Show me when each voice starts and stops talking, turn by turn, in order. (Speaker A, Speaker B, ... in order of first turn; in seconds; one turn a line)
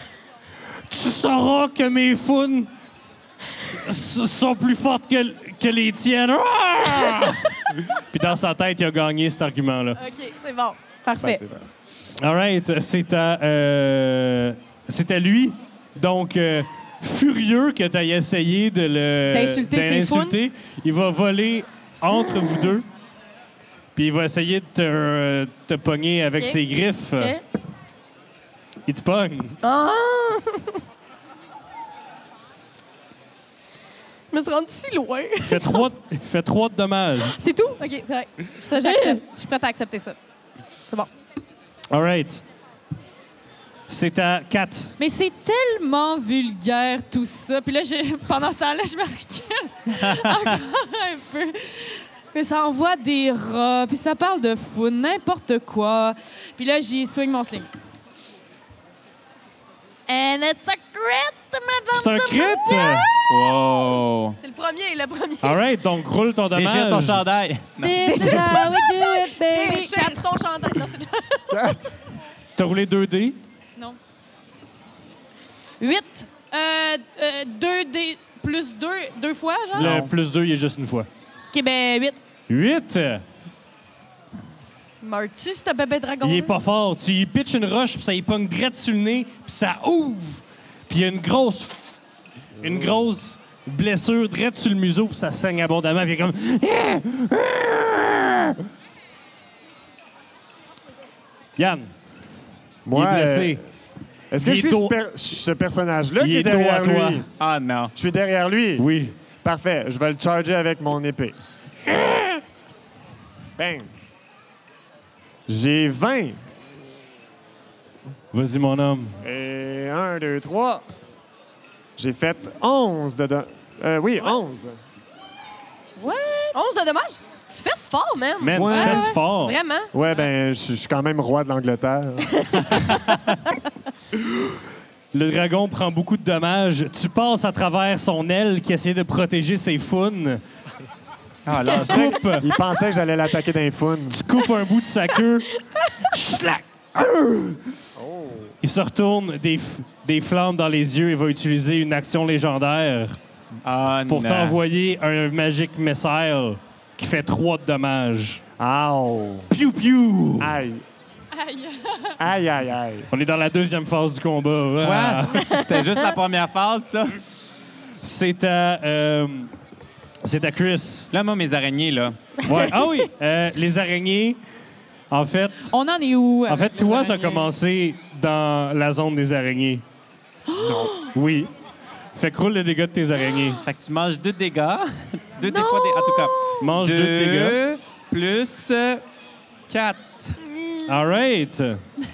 Speaker A: 0.9-2.7
Speaker A: 3.7-10.0
Speaker B: 10.0-11.4
Speaker C: 11.2-11.7
Speaker A: 12.2-22.9
Speaker B: 19.3-20.4
Speaker B: 22.4-22.6
Speaker A: 23.9-27.4
Speaker A: 28.9-29.6
Speaker B: 29.6-30.8
Speaker B: 34.3-35.8
Speaker A: 35.4-37.4
Speaker B: 37.2-40.1
Speaker D: 38.8-39.2
Speaker A: 41.9-42.4
Speaker A: 43.9-44.9
Speaker D: 45.0-57.7
Speaker E: 49.9-50.3
Speaker D: 60.1-63.2
Speaker A: 61.9-63.1
Speaker E: 63.3-64.4
Speaker B: 64.4-65.6
Speaker A: 65.4-67.2
Speaker E: 66.5-68.7
Speaker D: 67.8-70.2
Speaker B: 68.0-71.6
Speaker C: 71.5-71.8
Speaker A: 72.5-73.4
Speaker D: 75.8-79.9
Speaker E: 79.8-80.1
Speaker A: 79.8-81.1
Speaker D: 81.5-82.2
Speaker A: 82.5-83.2
Speaker B: 85.0-86.5
Speaker A: 86.2-92.0
Speaker C: 92.6-93.1
Speaker A: 92.6-98.6
Speaker A: 101.6-101.9
Speaker C: 102.8-103.6
Speaker A: 102.9-103.6
Speaker C: 104.3-107.2
Speaker A: 104.4-105.0
Speaker A: 106.2-107.2
Speaker E: 107.4-107.9
Speaker C: 108.0-108.8
Speaker A: 108.8-109.1
Speaker C: 109.4-111.4
Speaker A: 111.8-112.4
Speaker C: 113.6-113.9
Speaker C: 115.5-116.4
Speaker A: 118.3-119.2
Speaker C: 119.2-120.8
Speaker C: 122.0-124.8
Speaker D: 126.0-126.5
Speaker B: 126.5-129.9
Speaker A: 128.4-129.6
Speaker C: 128.5-129.2
Speaker C: 129.9-132.3
Speaker B: 132.3-132.9
Speaker A: 134.2-134.6
Speaker A: 135.1-140.4
Speaker E: 141.4-142.2
Speaker A: 141.7-142.5
Speaker C: 141.7-144.2
Speaker A: 144.1-147.6
Speaker C: 147.9-148.5
Speaker A: 148.6-153.2
Speaker E: 153.6-154.6
Speaker A: 154.1-158.4
Speaker C: 158.6-159.5
Speaker A: 159.5-160.5
Speaker C: 160.4-160.8
Speaker D: 161.3-162.1
Speaker C: 162.2-163.1
Speaker A: 163.1-165.6
Speaker E: 164.8-167.2
Speaker A: 168.0-169.5
Speaker A: 170.2-171.1
Speaker E: 171.1-172.2
Speaker A: 172.4-174.4
Speaker A: 175.1-175.7
Speaker D: 175.7-177.5
Speaker A: 176.5-179.8
Speaker D: 180.5-181.1
Speaker A: 181.1-181.5
Speaker A: 182.1-183.6
Speaker E: 183.6-189.0
Speaker B: 185.4-186.7
Speaker A: 186.6-187.6
Speaker E: 189.7-190.4
Speaker B: 190.5-190.9
Speaker A: 190.9-191.8